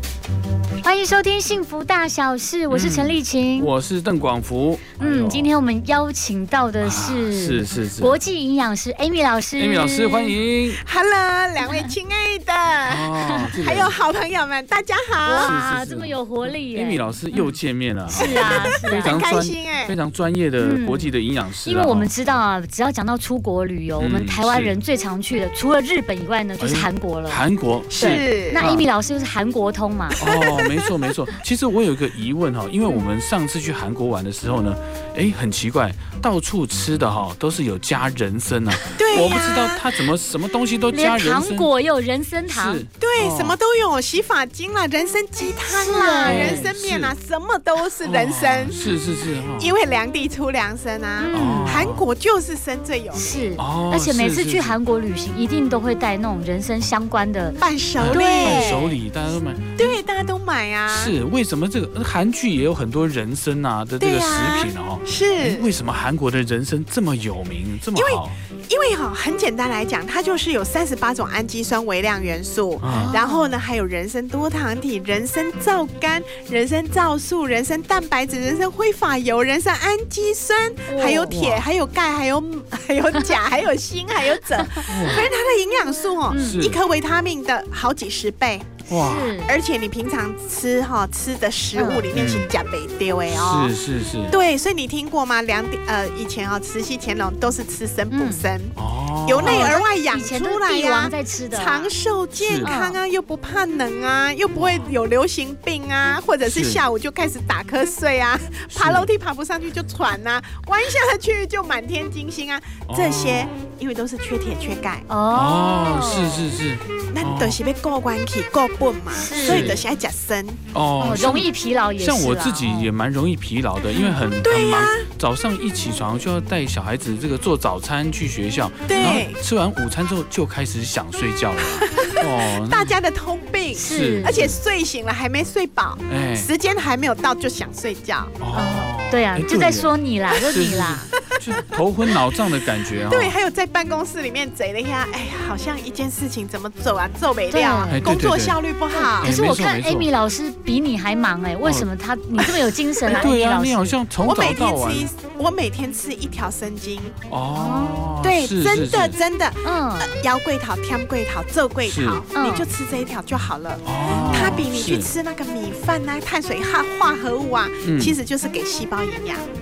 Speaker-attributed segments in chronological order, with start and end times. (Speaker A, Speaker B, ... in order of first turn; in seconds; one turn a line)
Speaker A: 0.8-3.7
Speaker B: 2.7-5.5
Speaker A: 5.0-10.4
Speaker B: 6.8-8.1
Speaker B: 9.6-10.8
Speaker C: 10.8-15.5
Speaker A: 11.6-11.9
Speaker B: 12.9-14.0
Speaker A: 15.2-17.5
Speaker B: 15.4-22.1
Speaker A: 18.1-19.2
Speaker C: 18.2-19.9
Speaker A: 20.6-21.1
Speaker A: 21.6-27.4
Speaker B: 24.0-24.7
Speaker B: 26.6-28.8
Speaker C: 27.9-28.6
Speaker A: 28.0-30.2
Speaker C: 30.2-31.1
Speaker B: 30.2-41.7
Speaker C: 38.9-39.9
Speaker A: 40.9-42.8
Speaker B: 42.5-43.6
Speaker C: 43.0-53.5
Speaker A: 45.7-46.6
Speaker B: 46.2-47.1
Speaker B: 48.0-49.7
Speaker A: 51.2-51.7
Speaker B: 51.3-52.0
Speaker A: 53.1-58.9
Speaker B: 53.6-54.8
Speaker C: 57.6-58.9
Speaker B: 58.0-60.0
Speaker C: 59.8-61.1
Speaker B: 60.9-68.3
Speaker C: 64.0-65.7
Speaker C: 67.9-88.9
Speaker B: 72.8-73.1
Speaker A: 72.9-73.5
Speaker A: 80.9-81.4
Speaker B: 81.3-81.6
Speaker A: 84.6-85.2
Speaker B: 84.9-85.3
Speaker A: 86.3-86.6
Speaker B: 86.4-86.8
Speaker A: 88.9-89.5
Speaker B: 88.9-89.4
Speaker C: 89.4-93.7
Speaker A: 91.7-92.0
Speaker B: 92.1-92.5
Speaker B: 93.3-94.4
Speaker C: 94.3-115.1
Speaker A: 98.1-98.4
Speaker B: 98.8-99.8
Speaker A: 99.4-101.9
Speaker B: 102.4-102.7
Speaker A: 102.6-103.0
Speaker B: 104.5-104.9
Speaker B: 106.4-106.8
Speaker B: 108.7-109.1
Speaker B: 112.9-113.5
Speaker A: 115.1-116.4
Speaker B: 115.3-117.6
Speaker C: 117.1-120.6
Speaker A: 119.1-119.8
Speaker B: 119.4-119.8
Speaker B: 120.7-133.0
Speaker A: 121.0-122.9
Speaker C: 123.9-125.1
Speaker C: 128.8-129.4
Speaker C: 131.7-138.3
Speaker A: 133.7-134.4
Speaker B: 133.8-134.6
Speaker B: 136.1-136.5
Speaker B: 138.4-143.3
Speaker A: 138.5-141.1
Speaker C: 141.3-141.8
Speaker C: 143.0-149.3
Speaker A: 147.5-148.0
Speaker B: 147.9-148.6
Speaker A: 148.9-154.0
Speaker B: 149.2-150.1
Speaker B: 151.6-151.9
Speaker B: 153.0-155.1
Speaker C: 154.2-157.2
Speaker B: 157.3-159.2
Speaker A: 157.5-157.9
Speaker C: 158.2-169.5
Speaker A: 159.6-160.1
Speaker B: 161.8-162.2
Speaker A: 162.3-162.7
Speaker B: 163.8-165.1
Speaker A: 164.1-164.6
Speaker B: 167.8-168.2